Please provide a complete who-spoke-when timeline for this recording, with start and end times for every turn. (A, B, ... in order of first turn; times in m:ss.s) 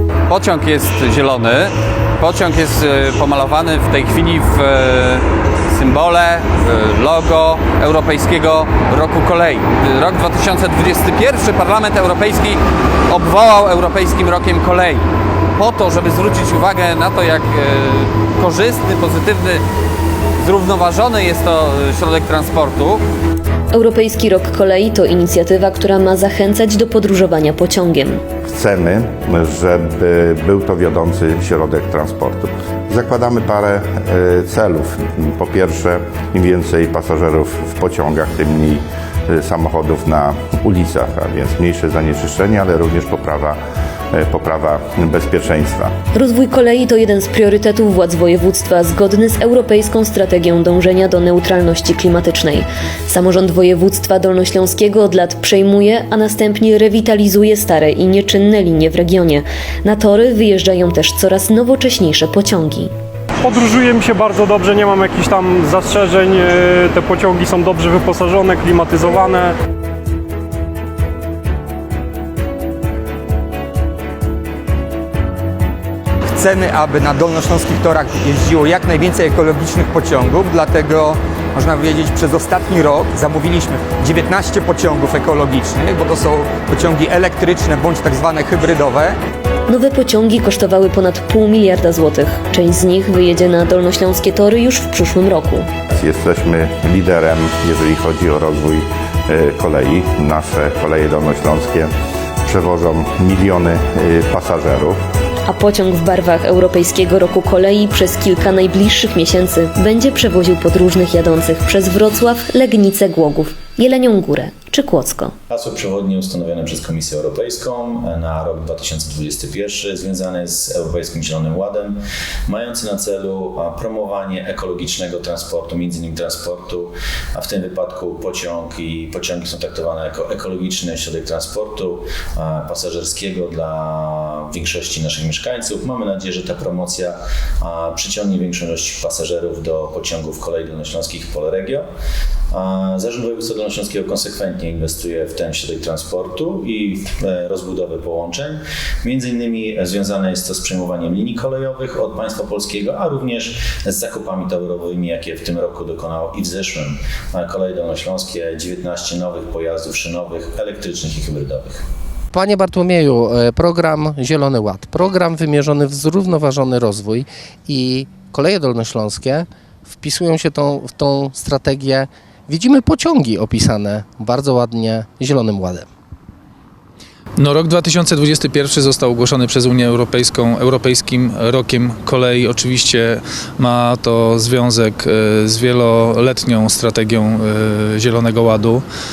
0:00.3-0:15.0 A
0:15.6-0:19.6 A
0:20.4-0:23.0 A
0:23.7-0:28.2 B
0:28.4-0:43.6 C
0:44.1-0:45.9 C
0:46.2-1:02.9 B
1:03.4-1:09.5 D
1:16.3-1:29.2 E
1:29.7-1:35.7 B
1:35.9-1:41.9 C
1:42.4-1:45.0 C
1:45.5-1:55.3 B
1:55.5-2:21.8 F
2:22.5-2:41.8 F
2:42.3-2:55.9 G
2:57.4-3:08.8 H